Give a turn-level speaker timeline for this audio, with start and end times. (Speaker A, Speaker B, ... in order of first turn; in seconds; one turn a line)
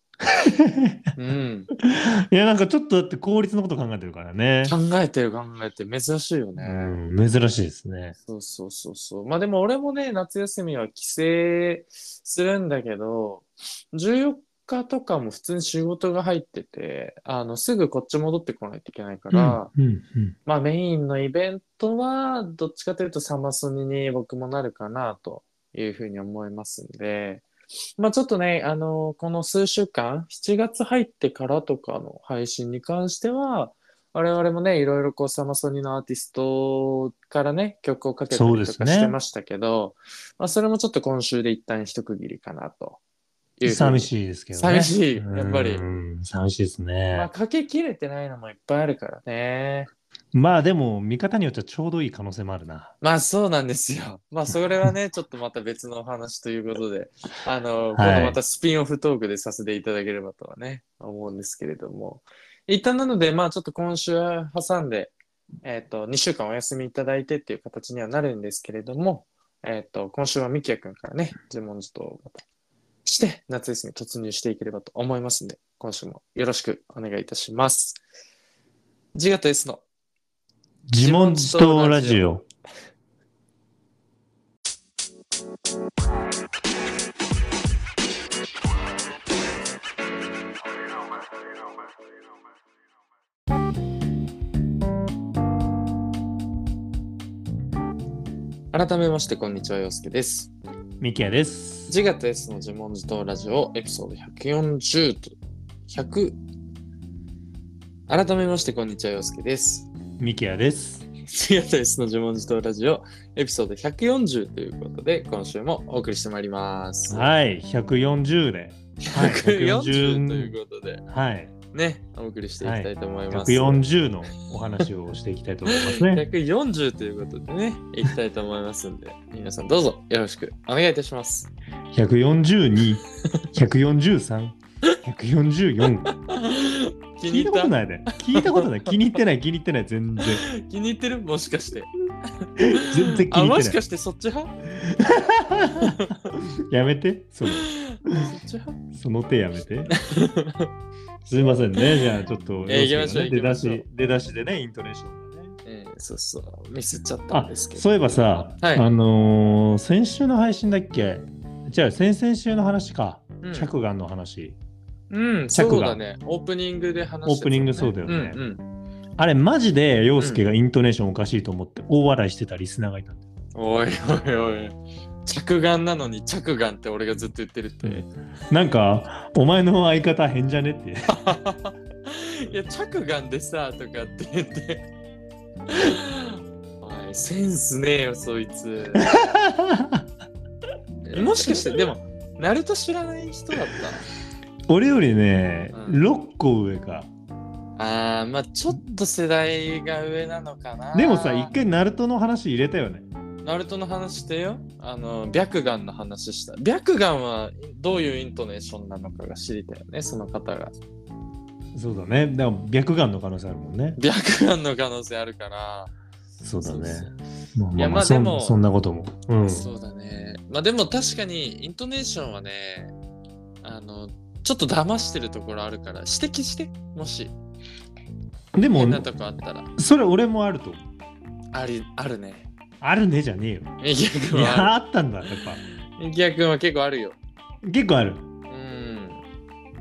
Speaker A: 0.3-1.1
Speaker B: 1.2-1.7
Speaker A: 1.8-4.8
Speaker B: 4.7-7.0
Speaker A: 6.6-8.2
Speaker B: 8.2-19.7
Speaker A: 19.3-20.4
Speaker B: 20.5-27.4
Speaker B: 28.0-43.0
Speaker A: 38.3-39.2
Speaker B: 43.6-45.8
Speaker A: 43.6-47.3
Speaker B: 47.1-49.9
Speaker A: 50.3-52.9
Speaker B: 53.0-65.1
Speaker A: 58.0-58.4
Speaker B: 65.6-72.4
Speaker B: 73.0-78.0
Speaker B: 79.1-79.8
Speaker A: 80.9-82.4
Speaker B: 81.0-82.3
Speaker B: 98.7-100.5
Speaker A: 101.0-101.9
Speaker B: 101.9-105.4
Speaker B: 105.9-106.4
Speaker B: 108.1-109.9
Speaker A: 110.2-111.1
Speaker B: 111.3-117.3
Speaker A: 117.1-120.5
Speaker B: 119.0-121.0
Speaker A: 121.1-121.5
Speaker B: 121.7-123.8
Speaker A: 122.6-126.2
Speaker B: 125.7-131.5
Speaker A: 131.9-133.0
Speaker A: 133.5-136.1
Speaker B: 136.1-138.7
Speaker A: 137.3-140.4
Speaker B: 140.2-141.9
Speaker B: 142.4-144.5
Speaker A: 142.6-143.8
Speaker A: 144.8-148.2
Speaker B: 145.8-146.2
Speaker B: 147.5-148.8
Speaker A: 148.9-149.9
Speaker B: 149.9-150.7
Speaker A: 151.3-155.5
Speaker B: 152.7-153.8
Speaker B: 155.7-157.8
Speaker A: 157.3-164.6
Speaker B: 158.6-158.9
Speaker B: 163.4-163.7
Speaker B: 165.1-168.6
Speaker A: 165.6-166.0
Speaker A: 167.2-168.4
Speaker A: 169.2-173.2
Speaker B: 170.2-170.4
Speaker B: 173.6-178.1
Speaker A: 177.8-181.2
Speaker B: 181.1-184.8
Speaker B: 185.7-189.1
Speaker A: 189.0-190.1
Speaker B: 191.1-194.1
Speaker A: 191.2-191.9
Speaker A: 194.7-197.1
Speaker B: 195.7-196.0
Speaker B: 197.8-201.5
Speaker A: 200.9-203.1
Speaker B: 203.4-210.8
Speaker A: 211.7-214.0
Speaker B: 214.0-215.9
Speaker A: 216.4-219.7
Speaker B: 216.6-217.1
Speaker B: 217.8-218.6
Speaker B: 219.4-222.9
Speaker B: 223.6-227.3
Speaker A: 228.6-229.1
Speaker B: 228.8-229.7
Speaker A: 229.8-230.8
Speaker B: 231.5-232.5
Speaker A: 232.8-233.7
Speaker B: 233.8-234.8
Speaker A: 234.3-235.6
Speaker B: 235.3-237.2
Speaker A: 237.6-238.2
Speaker B: 238.5-239.2